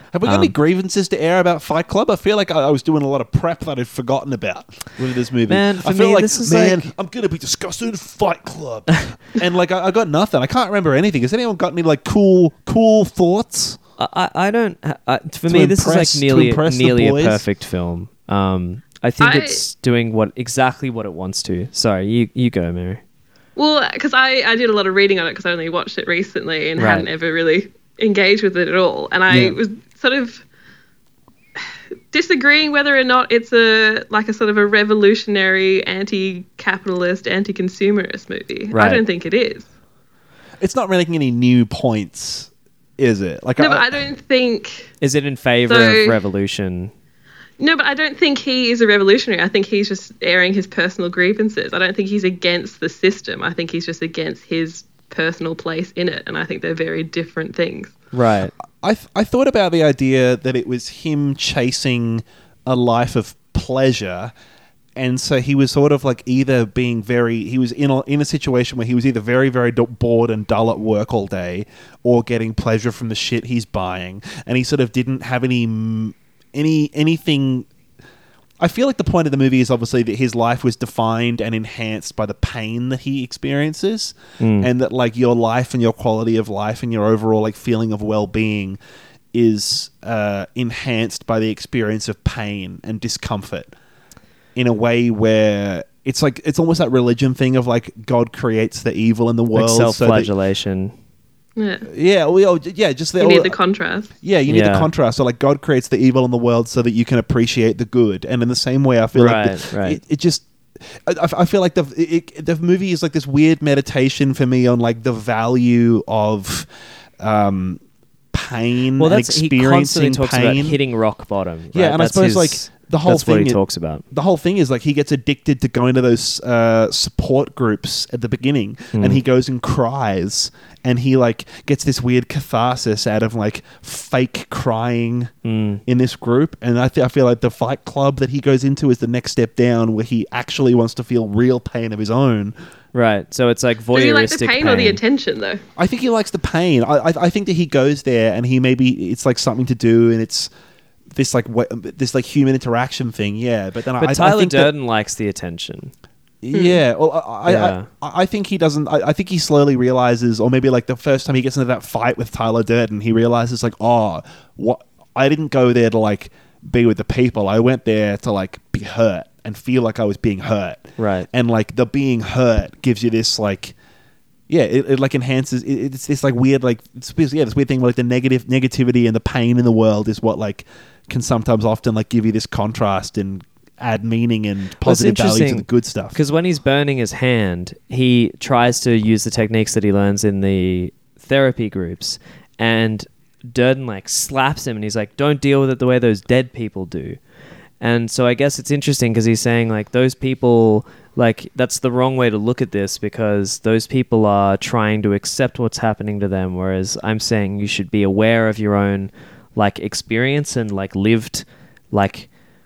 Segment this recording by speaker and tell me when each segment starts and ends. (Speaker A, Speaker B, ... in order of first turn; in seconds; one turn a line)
Speaker A: 0.1-13.8
Speaker B: 0.2-0.5
Speaker B: 5.5-6.9
Speaker B: 14.0-23.0
Speaker A: 15.5-17.4
Speaker C: 19.2-19.6
Speaker C: 23.6-30.4
Speaker B: 26.8-27.1
Speaker A: 29.3-29.6
Speaker C: 31.6-39.7
Speaker B: 38.7-39.0
Speaker A: 40.6-43.9
Speaker C: 43.6-44.9
Speaker B: 45.0-46.9
Speaker C: 45.7-46.1
Speaker C: 47.6-57.9
Speaker B: 58.1-58.5
Speaker A: 58.8-64.3
Speaker A: 65.0-77.7
Speaker A: 78.6-88.8
Speaker B: 84.4-84.7
Speaker A: 89.3-93.7
Speaker A: 94.5-100.3
Speaker B: 99.5-100.9
Speaker C: 101.6-101.8
Speaker A: 101.9-103.5
Speaker C: 103.2-104.1
Speaker A: 104.2-116.7
Speaker B: 104.5-104.9
Speaker B: 109.1-110.0
Speaker A: 117.2-117.8
Speaker A: 118.3-120.8
Speaker B: 119.0-124.0
Speaker A: 121.7-123.6
Speaker A: 124.1-135.3
Speaker B: 128.9-129.2
Speaker B: 135.4-135.8
Speaker A: 135.9-142.5
Speaker B: 142.9-145.0
Speaker C: 143.9-145.6
Speaker A: 145.8-150.5
Speaker A: 151.1-154.7
Speaker B: 154.0-155.9
Speaker A: 156.4-173.7
Speaker C: 156.5-156.8
Speaker B: 157.4-157.9
Speaker B: 171.0-171.3
Speaker A: 174.5-186.2
Speaker B: 184.8-197.2
Speaker B: 197.8-212.3